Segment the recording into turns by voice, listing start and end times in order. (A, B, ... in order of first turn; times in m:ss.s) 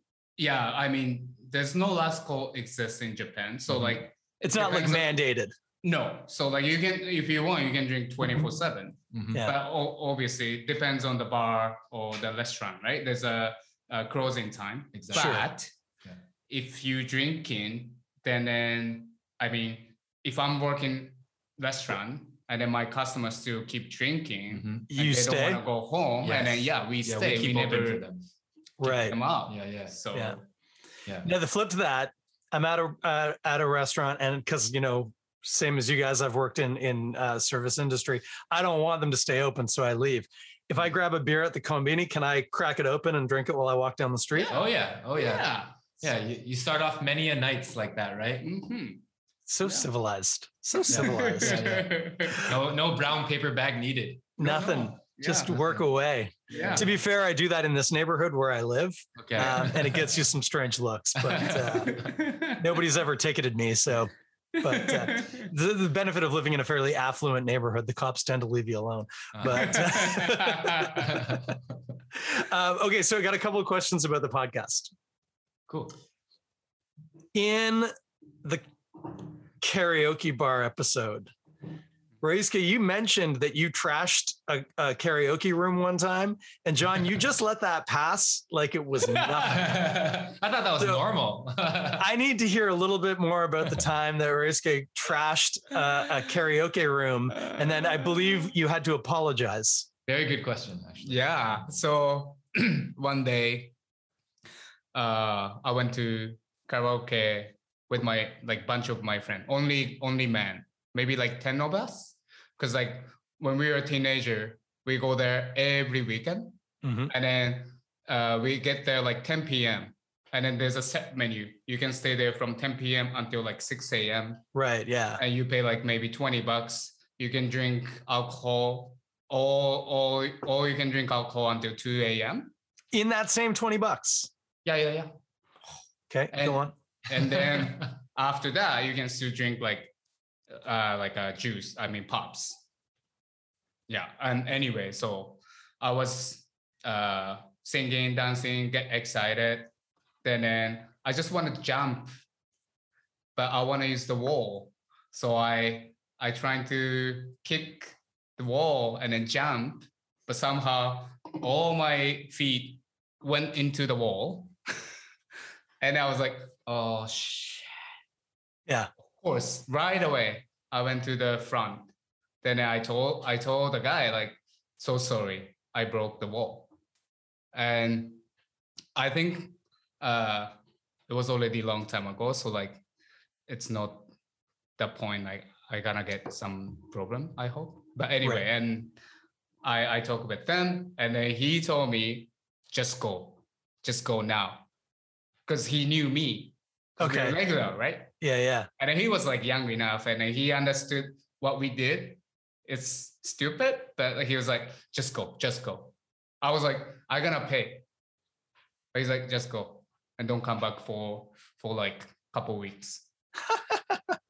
0:00.4-0:05.1 A
0:03.7-0:04.0 B
0:04.4-0:05.5 C
0:05.8-0:15.7 A
0:09.1-0:09.4 B
0:14.9-0:15.4 B
0:15.1-0:15.4 C
0:16.5-0:28.1 A
0:24.5-0:24.9 B
0:24.9-0:25.6 C
0:26.2-0:28.3 B
0:28.8-0:29.2 C
0:28.8-0:30.0 B
0:28.8-0:30.4 A
0:31.2-0:44.5 C
0:44.4-0:45.8 A
0:44.5-0:48.4 B
0:48.4-0:49.0 A
0:49.5-0:51.7 C
0:49.6-0:49.9 A
0:50.9-0:52.5 A
0:50.9-0:54.3 B
0:54.4-1:11.5 C
0:54.4-0:55.6 A
0:56.5-0:56.9 A
0:56.5-0:56.9 B
0:59.2-1:00.1 B
1:01.2-1:02.0 B
1:01.8-1:02.7 A
1:04.6-1:05.5 A
1:09.3-1:10.0 B
1:09.6-1:10.8 A
1:10.8-1:11.6 B
1:12.1-1:14.9 C
1:15.7-1:16.0 B
1:17.3-1:17.9 C
1:19.6-1:21.3 C
1:22.2-1:30.1 C
1:29.3-1:32.1 B
1:30.8-1:31.1 C
1:32.0-1:39.9 C
1:37.6-1:38.3 A
1:40.0-1:41.7 B
1:41.0-1:43.7 A
1:44.9-1:56.6 A
1:56.8-1:57.1 C
1:57.1-2:04.4 A
2:04.5-2:05.2 C
2:05.2-2:12.5 A
2:12.9-2:14.3 C
2:14.6-2:15.1 A
2:16.1-2:16.7 C
2:16.3-2:19.9 A
2:17.3-2:17.8 B
2:20.5-2:22.6 A
2:23.9-2:29.7 A
2:30.2-2:32.1 A
2:33.4-2:44.5 A
2:45.8-2:47.7 A
2:49.2-2:51.9 A
2:52.4-2:56.7 A
2:57.5-2:58.2 A
2:58.9-3:00.5 A
3:01.1-3:02.8 A
3:03.5-3:04.1 A
3:04.8-3:09.0 A
3:09.6-3:14.7 A
3:15.5-3:18.1 A
3:17.0-3:17.4 C
3:18.2-3:18.7 C
3:18.8-3:27.8 A
3:28.9-3:33.0 A